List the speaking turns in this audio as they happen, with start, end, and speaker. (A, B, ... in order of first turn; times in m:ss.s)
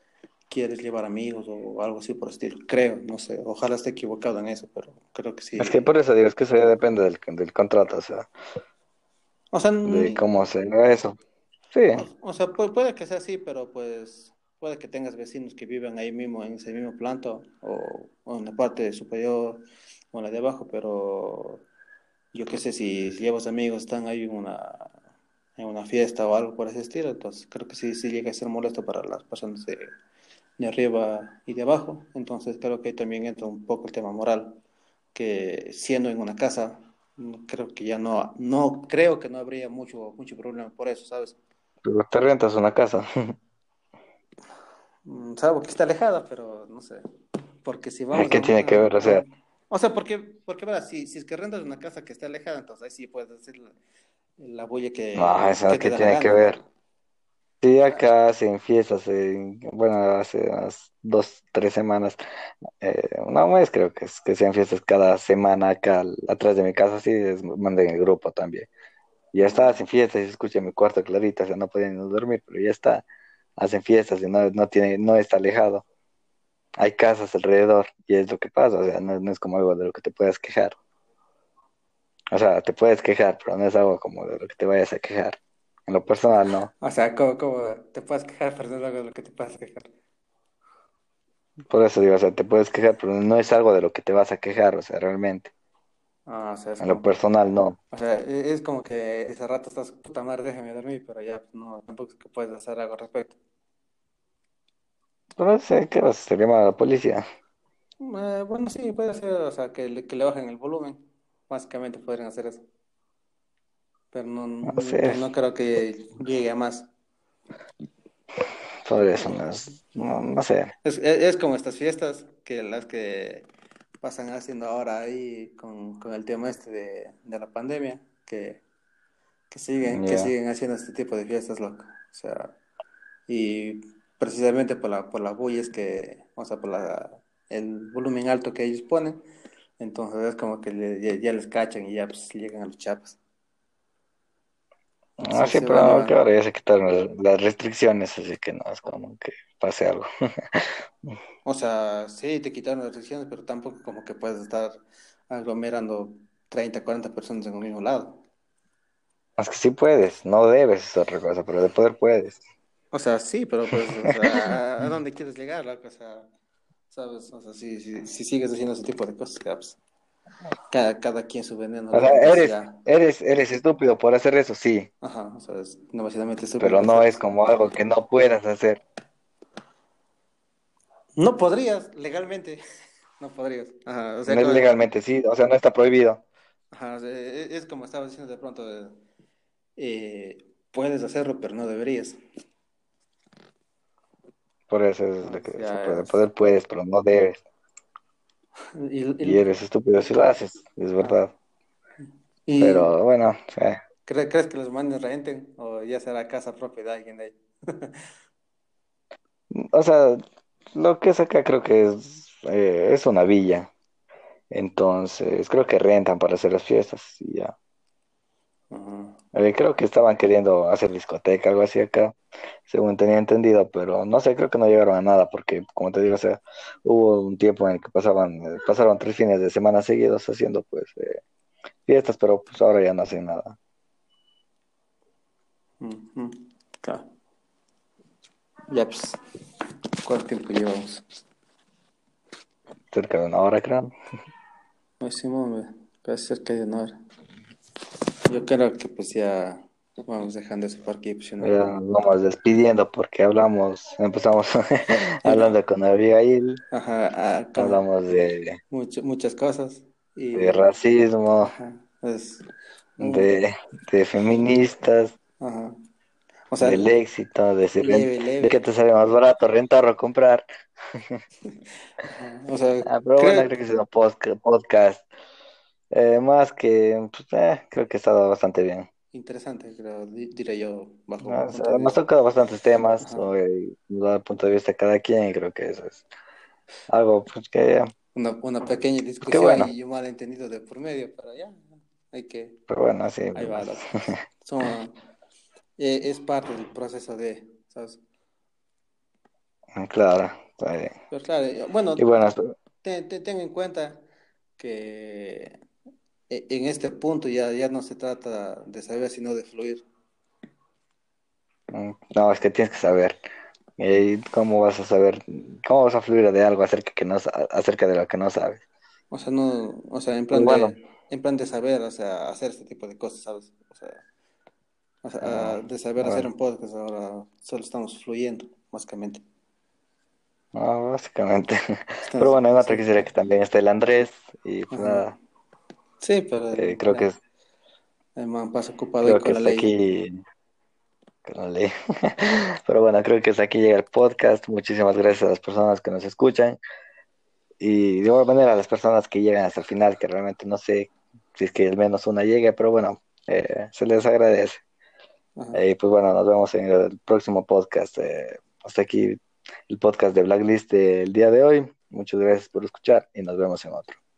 0:00.5-0:05.9 A
0:05.6-0:08.3 B
0:09.5-0:10.2 A
0:09.8-0:11.2 B
0:11.7-0:12.0 B
0:11.9-0:21.6 A
0:22.3-0:24.9 A
0:25.6-0:29.9 A
0:30.6-0:34.6 A
0:35.1-0:41.4 A
0:41.8-0:43.3 B
0:45.0-0:47.0 A
0:47.6-0:53.7 A
0:48.1-0:49.2 B
0:54.4-0:56.6 A
0:55.1-0:56.6 B
0:57.6-1:02.2 B
1:02.8-1:08.7 B
1:09.3-1:13.0 B
1:09.4-1:09.8 A
1:13.6-1:15.8 B
1:16.8-1:20.8 B
1:22.3-1:26.7 B
1:26.8-1:29.9 A
1:31.7-1:35.5 B
1:36.3-1:37.2 A
1:36.8-1:37.8 B
1:37.9-1:43.4 A
1:45.4-1:47.2 B
1:48.0-1:52.6 A
1:54.1-1:56.9 A
1:54.6-1:55.2 B
1:58.8-2:00.7 B
2:00.8-2:03.4 A
2:04.0-2:08.6 A
2:09.5-2:12.5 A
2:09.9-2:10.3 B
2:13.3-2:19.2 A
2:19.8-2:23.2 A
2:25.2-2:31.1 B
2:25.2-2:26.2 A
2:31.4-2:38.2 A
2:39.4-2:42.4 B
2:42.9-2:46.3 A
2:44.1-2:44.4 B
2:46.9-2:49.8 A
2:50.7-2:52.8 A
2:51.9-2:54.9 B
2:55.0-2:57.2 A
2:56.6-2:58.8 B
3:01.2-3:02.6 A
3:03.2-3:04.8 A
3:04.3-3:06.2 B
3:06.7-3:09.0 A
3:09.8-3:12.2 A
3:14.7-3:17.4 B
3:15.2-3:16.2 A
3:18.7-3:19.5 A
3:19.2-3:21.3 B
3:22.4-3:23.0 A
3:22.6-3:23.8 B
3:24.0-3:28.0 A
3:29.5-3:30.2 B
3:30.7-3:33.7 B
3:34.5-3:37.5 B
3:38.7-3:39.2 A
3:39.3-3:51.2 B
3:51.9-3:53.6 B
3:55.8-3:57.0 A
3:58.7-3:59.2 A
4:00.0-4:01.1 A
4:02.9-4:03.9 B
4:05.0-4:07.0 A
4:08.3-4:11.8 A
4:11.4-4:16.6 B
4:15.2-4:15.5 A
4:16.7-4:17.8 A
4:17.6-4:18.6 B
4:18.7-4:20.6 A
4:20.3-4:21.5 B
4:21.4-4:22.4 A
4:23.0-4:23.3 A
4:23.0-4:25.1 B
4:25.4-4:25.8 A
4:26.5-4:26.9 A
4:26.6-4:31.2 B
4:27.8-4:28.6 A
4:32.0-4:33.5 A
4:32.8-4:35.0 B
4:35.9-4:38.9 B
4:39.1-4:42.0 A
4:41.2-4:46.0 B
4:43.0-4:43.3 A
4:46.9-4:47.9 B
4:48.1-4:52.6 A
4:49.2-4:49.7 B
4:52.7-4:54.2 B
4:53.3-4:54.9 A
4:55.8-4:58.0 A
4:59.7-5:00.9 B
5:01.1-5:02.0 A
5:02.0-5:02.5 B
5:02.8-5:04.0 A
5:04.6-5:05.6 A
5:06.3-5:09.8 A
5:11.7-5:13.2 B
5:13.8-5:18.6 B
5:19.1-5:24.0 A
5:20.3-5:20.7 B
5:25.0-5:29.2 A
5:25.2-5:26.3 B
5:30.5-5:35.1 B
5:32.0-5:33.0 A
5:34.7-5:35.1 A
5:36.0-5:37.1 A
5:36.5-5:37.2 B
5:38.2-5:39.7 A
5:39.0-5:40.2 B
5:41.2-5:46.6 B
5:47.6-5:54.6 B
5:55.5-6:04.0 B